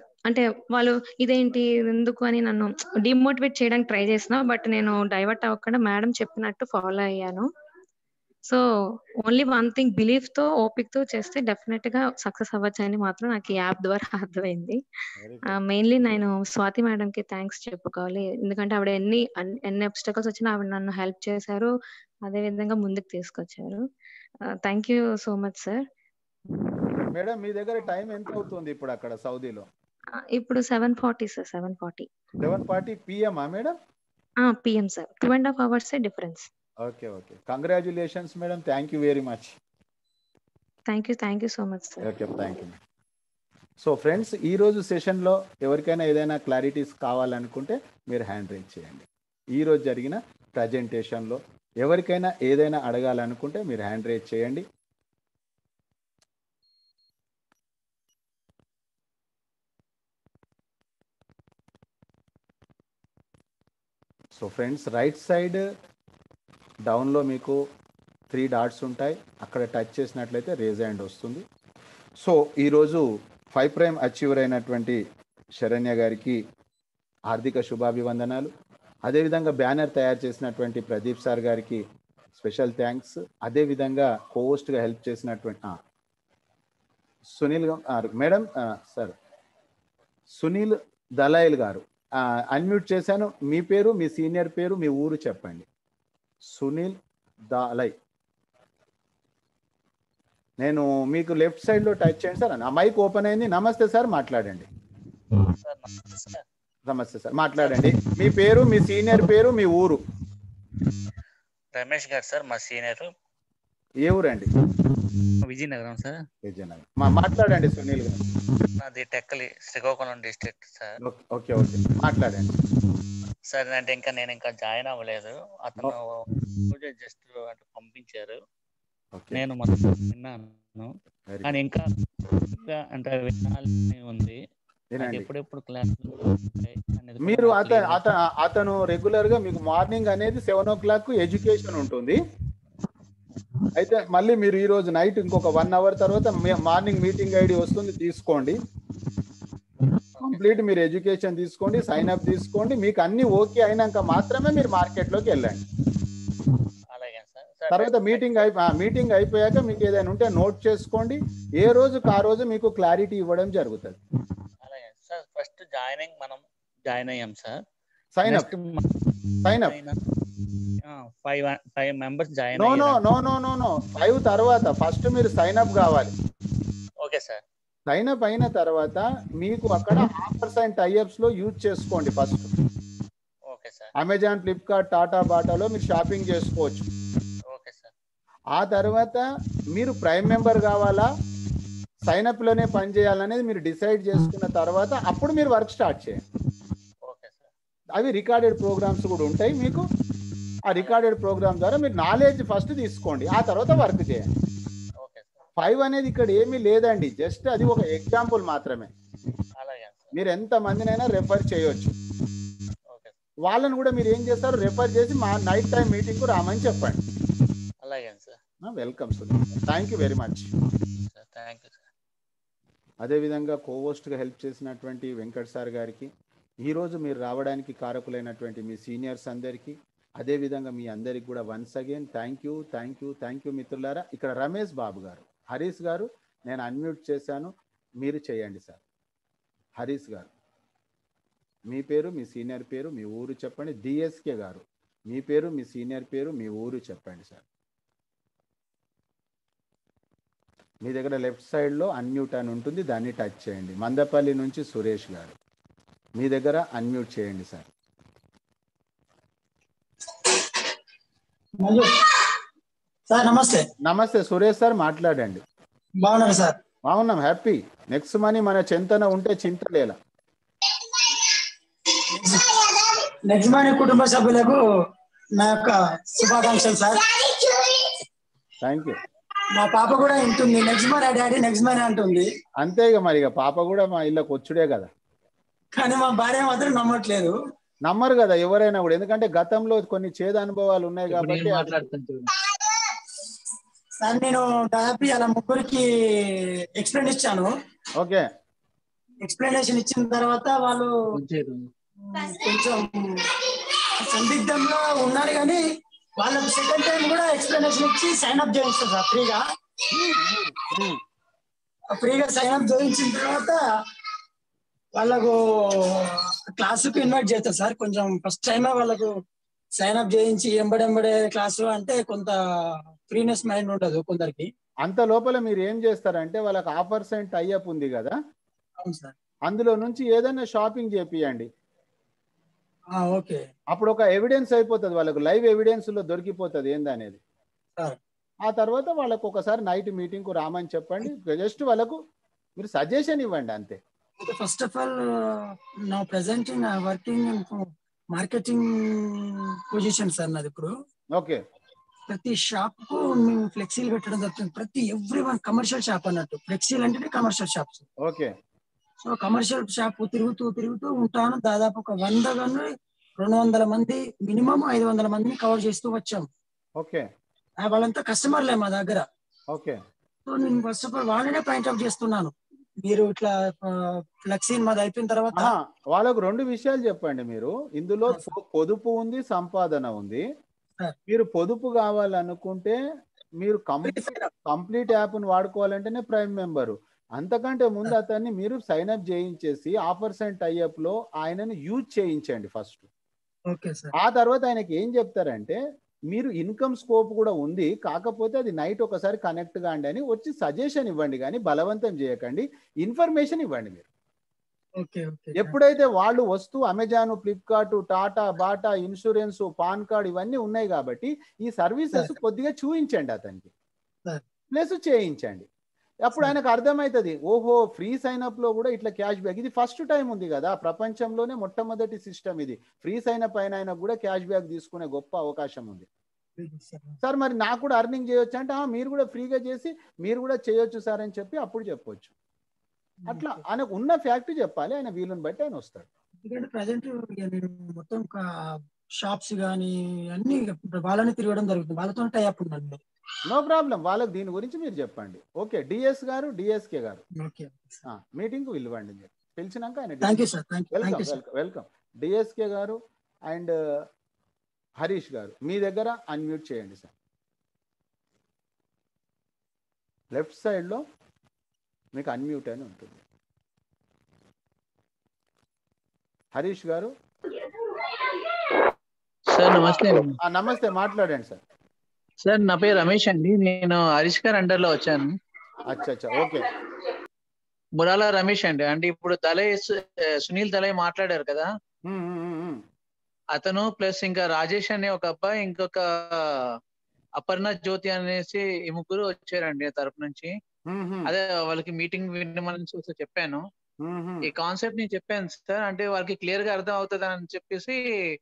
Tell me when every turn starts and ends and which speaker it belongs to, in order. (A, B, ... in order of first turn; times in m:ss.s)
0:00.3-0:07.5 A
0:09.2-0:14.8 A
0:15.2-0:15.6 B
0:15.4-0:21.7 A
0:22.2-0:23.8 A
0:24.5-0:25.9 A
0:27.1-0:29.7 B
0:30.2-0:32.1 A
0:32.4-0:33.7 B
0:34.4-0:36.5 A
0:36.8-0:39.6 B
0:40.9-0:42.1 A
0:42.0-0:42.8 B
0:43.8-0:54.6 B
1:04.4-1:05.6 B
1:06.9-1:07.6 B
1:08.3-1:11.4 B
1:12.2-1:15.0 B
1:15.6-1:16.4 B
1:17.3-1:18.5 B
1:19.1-1:21.8 B
1:22.4-1:25.8 B
1:27.4-1:29.2 B
1:30.3-1:31.8 B
1:32.5-1:35.7 B
1:36.5-1:37.0 B
1:37.5-1:38.0 B
1:40.6-1:44.7 B
1:45.6-1:46.4 C
1:46.9-1:50.0 B
1:47.6-1:47.9 C
1:51.7-1:53.1 C
1:54.0-1:54.5 B
1:55.4-1:56.2 C
1:56.4-1:58.3 B
1:58.8-2:01.0 C
2:01.0-2:02.5 B
2:03.5-2:08.4 C
2:09.1-2:09.4 B
2:09.3-2:10.9 C
2:11.3-2:11.6 B
2:11.4-2:11.9 C
2:12.5-2:14.4 C
2:14.9-2:15.3 B
2:15.0-2:18.0 C
2:17.2-2:22.2 B
2:23.8-2:28.6 B
2:30.2-2:30.6 C
2:30.2-2:35.6 B
2:36.9-2:38.5 C
2:37.7-2:44.0 B
2:44.6-2:47.6 C
2:48.2-2:48.5 B
2:48.3-2:48.9 C
2:49.4-2:49.7 B
2:49.5-2:50.0 C
2:50.8-2:53.0 C
2:52.6-2:56.1 B
2:57.0-2:57.4 C
2:57.9-3:02.5 B
3:03.5-3:03.9 C
3:04.0-3:06.9 B
3:07.5-3:07.9 C
3:08.6-3:11.1 B
3:12.0-3:16.2 B
3:17.0-3:17.4 C
3:18.0-3:19.8 B
3:20.7-3:24.3 B
3:20.7-3:21.0 C
3:25.0-3:25.5 C
3:25.6-3:28.9 B
3:29.6-3:30.1 C
3:30.1-3:31.9 B
3:32.9-3:33.1 C
3:33.5-3:37.0 B
3:37.8-3:38.4 C
3:38.6-3:40.5 B
3:41.0-3:41.8 C
3:43.0-3:46.1 B
3:46.6-3:58.8 B
3:59.8-4:00.3 B
4:01.7-4:07.4 B
4:10.8-4:15.4 B
4:16.2-4:17.7 B
4:21.6-4:21.9 D
4:23.1-4:23.7 D
4:23.8-4:25.4 B
4:26.0-4:26.6 D
4:26.9-4:30.0 B
4:31.0-4:31.3 D
4:32.1-4:34.6 D
4:35.4-4:38.0 D
4:38.6-4:39.0 B
4:39.6-4:42.3 D
4:42.6-4:44.9 B
4:45.7-4:47.3 D
4:47.8-4:51.8 B
4:51.1-4:52.3 E
4:52.5-4:53.2 D
4:54.0-4:57.5 D
4:58.0-4:58.3 B
4:59.2-5:00.9 D
5:01.1-5:01.7 E
5:02.0-5:05.6 D
5:06.2-5:09.4 D
5:09.9-5:11.0 B
5:11.9-5:13.6 D
5:15.0-5:19.1 D
5:19.8-5:22.4 D
5:23.1-5:24.5 D
5:24.8-5:28.2 B
5:28.8-5:29.2 D
5:29.5-5:31.5 B
5:33.0-5:33.5 D
5:33.7-5:37.2 B
5:38.5-5:42.0 B
5:42.6-5:43.8 B
5:44.2-5:50.7 D
5:51.2-5:51.4 B
5:52.1-5:57.9 D
5:58.0-5:58.3 B
5:59.0-6:02.7 D
6:03.2-6:06.3 D
6:06.8-6:07.1 B
6:07.6-6:09.1 D
6:09.5-6:09.8 B
6:10.3-6:15.6 D
6:15.4-6:20.2 B
6:21.1-6:22.8 B
6:23.4-6:32.8 B
6:23.8-6:24.3 D
6:33.5-6:33.9 D
6:34.0-6:35.6 B
6:36.1-6:43.9 B
6:44.8-6:45.6 D
6:45.4-6:53.5 B
6:54.5-6:55.5 B
6:56.0-7:05.9 B
7:06.4-7:07.0 D
7:07.0-7:12.1 B
7:13.0-7:13.4 D
7:13.1-7:15.9 B
7:16.2-7:22.8 D
7:23.3-7:27.0 B
7:27.2-7:27.8 D
7:27.9-7:33.8 B
7:30.0-7:31.2 D
7:34.8-7:36.9 B
7:40.1-7:40.8 B
7:41.9-7:43.0 B
7:46.3-7:46.9 B
7:49.3-7:50.2 E
7:49.5-7:51.4 B
7:52.2-7:55.2 E
7:55.6-7:56.5 B
7:57.8-8:01.5 E
8:01.8-8:02.6 B
8:03.3-8:06.6 E
8:07.2-8:10.3 E
8:10.7-8:11.1 B
8:11.1-8:13.4 E
8:13.8-8:14.3 B
8:14.2-8:17.8 E